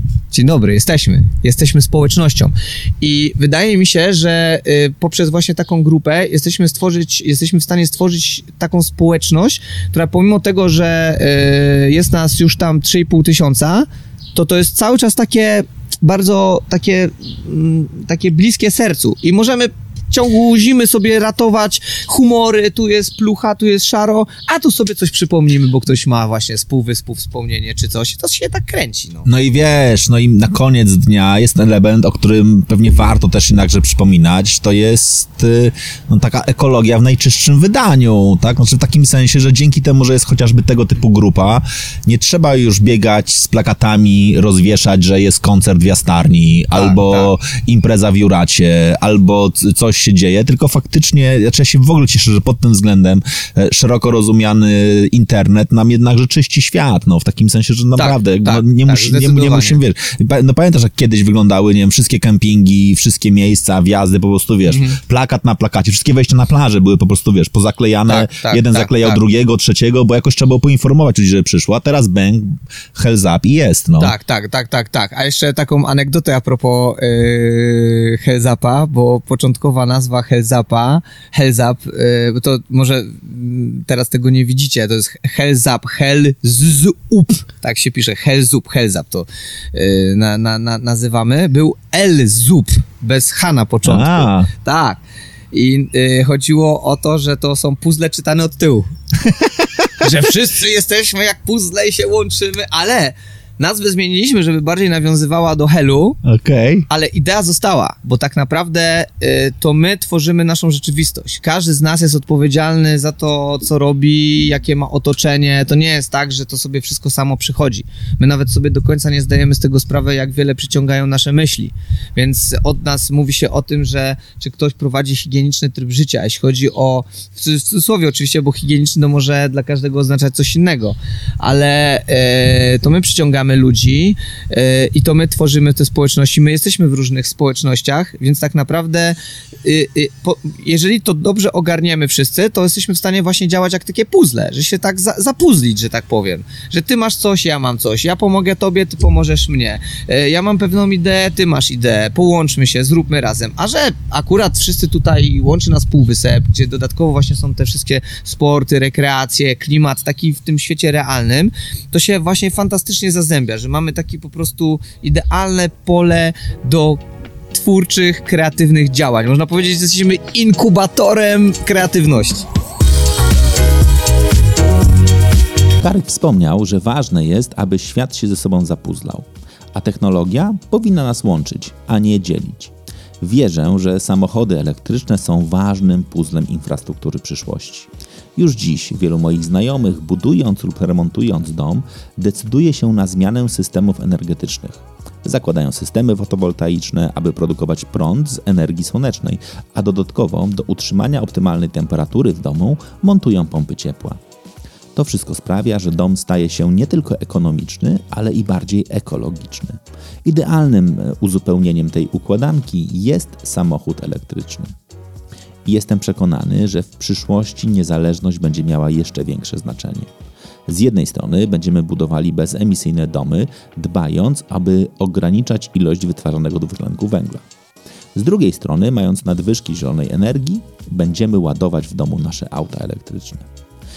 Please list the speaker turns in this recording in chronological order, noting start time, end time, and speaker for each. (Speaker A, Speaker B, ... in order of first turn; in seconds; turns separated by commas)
Speaker A: 0.3-29.3, Speaker B: 29.3-74.1, Speaker A: 46.7-47.3, Speaker A: 58.0-59.8, Speaker A: 64.7-65.0, Speaker A: 68.1-69.2, Speaker A: 74.0-95.0, Speaker B: 93.9-94.5, Speaker A: 95.5-98.9, Speaker B: 99.3-99.9, Speaker A: 100.0-106.2, Speaker B: 106.2-106.9, Speaker A: 106.9-172.5, Speaker C: 175.8-204.2, Speaker C: 204.9-214.7, Speaker C: 215.7-220.1, Speaker C: 220.7-227.4, Speaker C: 228.2-233.5